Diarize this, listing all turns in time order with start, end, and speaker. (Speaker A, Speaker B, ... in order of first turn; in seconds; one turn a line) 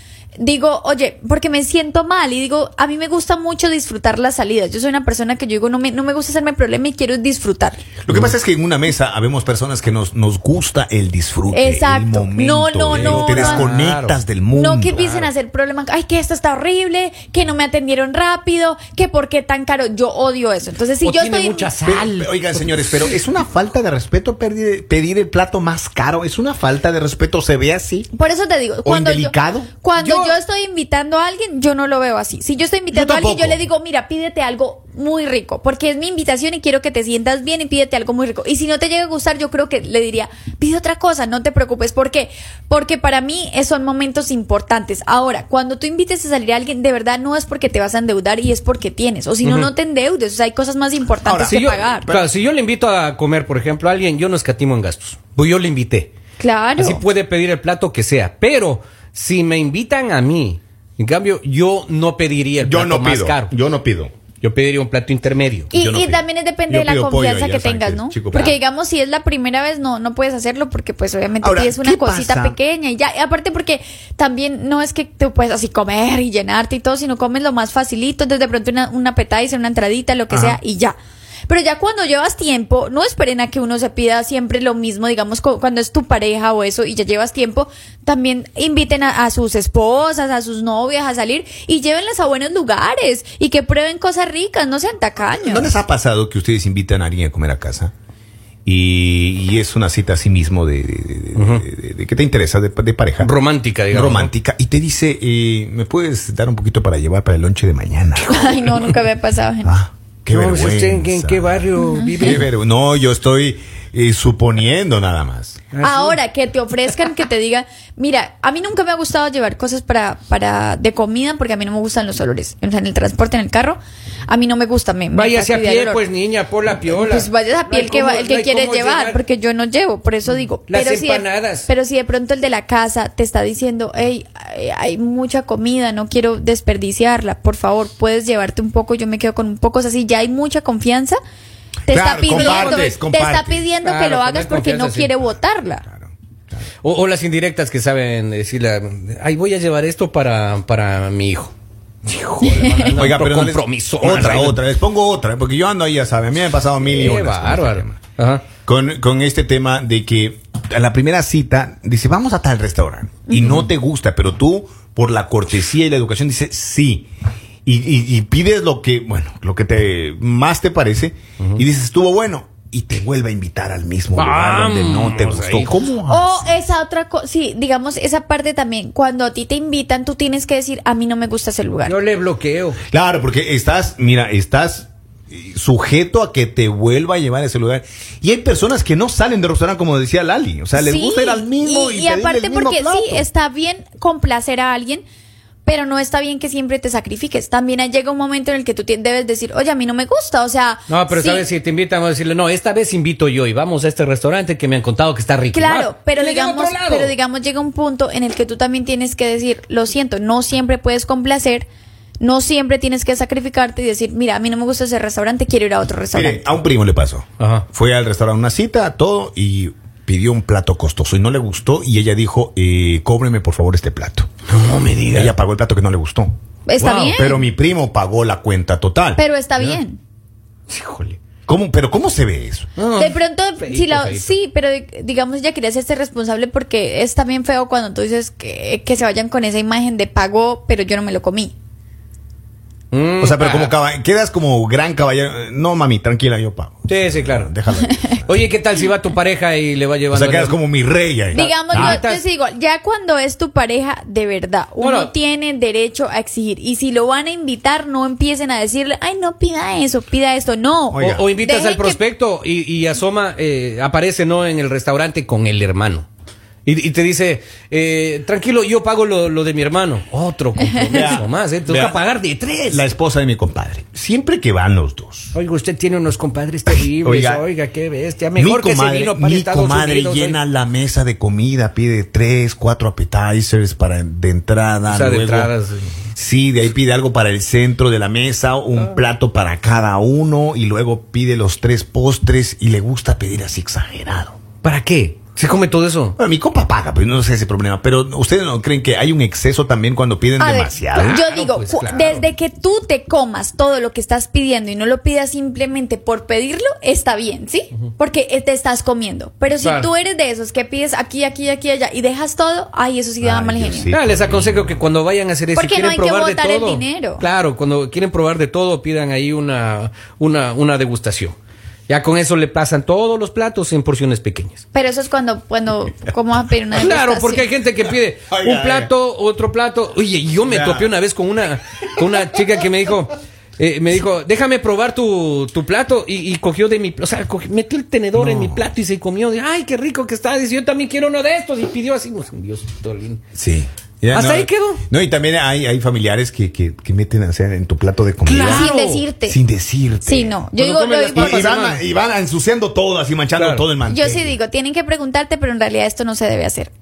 Speaker A: 0.4-7.8
Speaker B: 8.0-15.2
Speaker C: 8.1-8.3
Speaker A: 11.5-13.7
Speaker C: 12.9-14.2
Speaker A: 14.5-21.7
Speaker C: 15.0-15.3
Speaker C: 21.0-23.0
Speaker B: 21.8-28.1
Speaker A: 28.1-52.1
Speaker B: 28.8-29.7
Speaker C: 30.0-30.4
Speaker B: 32.9-33.6
Speaker C: 49.4-49.7
Speaker B: 51.1-52.3
Speaker C: 51.4-56.1
Speaker A: 56.4-57.0
Speaker C: 56.8-63.5
Speaker B: 62.6-64.1
Speaker C: 64.4-65.7
Speaker B: 65.7-68.6
Speaker A: 65.7-81.0
Speaker B: 71.4-72.5
Speaker B: 80.3-80.6
Speaker A: 81.5-95.8
Speaker B: 95.4-97.9
Speaker B: 98.6-103.3
Speaker C: 101.3-101.6
Speaker C: 103.2-104.3
Speaker B: 103.9-108.5
Speaker A: 108.2-109.7
Speaker C: 108.3-108.9
Speaker B: 109.6-115.6
Speaker C: 110.3-112.5
Speaker A: 111.8-112.4
Speaker C: 115.7-116.2
Speaker A: 115.8-126.0
Speaker C: 125.1-129.2
Speaker A: 126.9-141.2
Speaker C: 130.7-131.7
Speaker B: 141.9-143.7
Speaker A: 141.9-145.8
Speaker C: 142.3-142.9
Speaker C: 143.8-145.2
Speaker B: 145.8-146.1
Speaker C: 146.8-151.5
Speaker C: 152.1-154.7
Speaker A: 152.4-153.0
Speaker B: 152.6-158.0
Speaker C: 156.8-158.4
Speaker B: 158.6-167.1
Speaker A: 163.3-163.6
Speaker B: 167.6-176.7
Speaker C: 174.2-175.7
Speaker A: 176.1-181.9
Speaker C: 181.8-182.8
Speaker B: 182.9-193.2
Speaker A: 190.7-195.0
Speaker A: 195.6-201.5
Speaker C: 200.9-207.1
Speaker A: 205.5-211.7
Speaker A: 212.2-216.4
Speaker B: 216.1-224.3
Speaker C: 217.4-217.7
Speaker C: 224.5-225.3
Speaker B: 225.1-226.3
Speaker A: 226.7-227.3
Speaker C: 226.8-227.3
Speaker B: 227.0-229.2
Speaker A: 229.2-230.0
Speaker C: 230.7-231.2
Speaker B: 231.5-232.7
Speaker C: 232.8-234.3
Speaker A: 232.9-241.5
Speaker C: 242.9-243.7
Speaker B: 243.2-248.5
Speaker C: 246.9-247.5
Speaker A: 247.9-248.2
Speaker C: 248.2-250.6
Speaker B: 250.1-252.0
Speaker A: 251.3-262.0
Speaker C: 251.5-252.2
Speaker C: 254.8-255.1
Speaker B: 260.9-261.2
Speaker C: 260.9-266.1
Speaker C: 266.6-272.9
Speaker A: 270.7-271.2
Speaker B: 270.9-272.0
Speaker B: 272.7-275.3
Speaker C: 275.3-280.4
Speaker B: 276.7-277.4
Speaker B: 278.3-285.5
Speaker C: 284.9-285.9
Speaker B: 286.1-294.4
Speaker C: 294.6-296.2
Speaker B: 296.2-301.2
Speaker A: 300.4-313.9
Speaker C: 300.9-302.3
Speaker C: 309.6-309.9
Speaker B: 313.2-314.8
Speaker C: 313.9-321.4
Speaker A: 315.5-317.2
Speaker C: 321.9-324.6
Speaker A: 324.7-327.5
Speaker C: 326.7-343.2
Speaker B: 328.3-328.9
Speaker B: 330.4-330.9
Speaker B: 338.1-338.7
Speaker B: 343.3-354.4
Speaker C: 344.1-344.8
Speaker C: 348.2-349.0
Speaker A: 348.4-349.4
Speaker A: 350.1-351.5
Speaker C: 350.6-351.8
Speaker C: 353.4-353.6
Speaker A: 353.9-356.7